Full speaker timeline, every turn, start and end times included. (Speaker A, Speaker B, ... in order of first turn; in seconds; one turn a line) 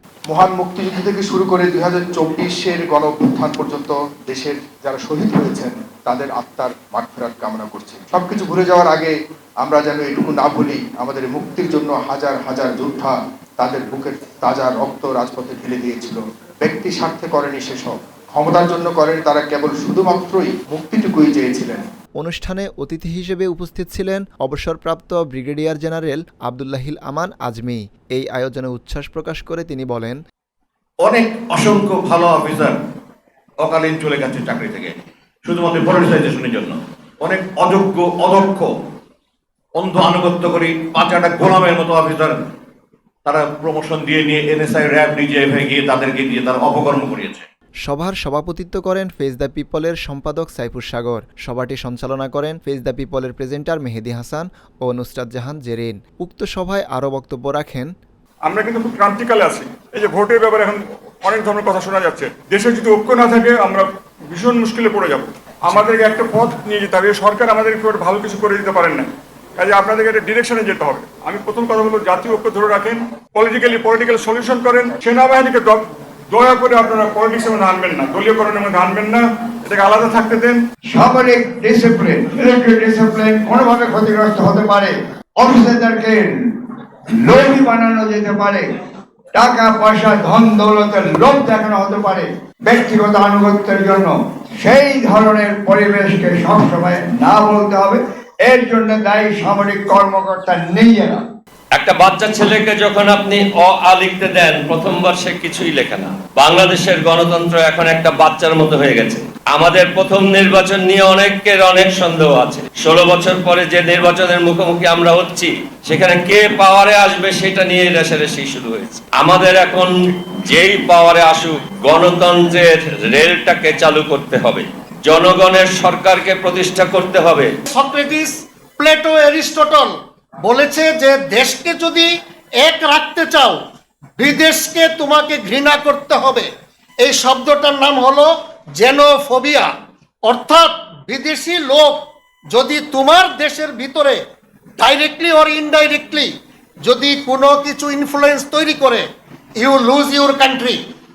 Speaker A: 0.3-21.9
Speaker B: 22.2-30.2
Speaker C: 31.0-32.8
Speaker C: 33.6-38.7
Speaker C: 39.8-42.4
Speaker C: 43.2-47.5
Speaker B: 47.8-57.9
Speaker D: 58.5-80.6
Speaker E: 80.9-86.5
Speaker E: 87.2-88.6
Speaker E: 89.3-101.2
Speaker F: 101.7-119.9
Speaker F: 120.5-127.5
Speaker G: 127.7-133.6
Speaker G: 134.2-139.7
Speaker G: 140.2-144.2
Speaker G: 144.8-149.1
Speaker G: 149.6-150.8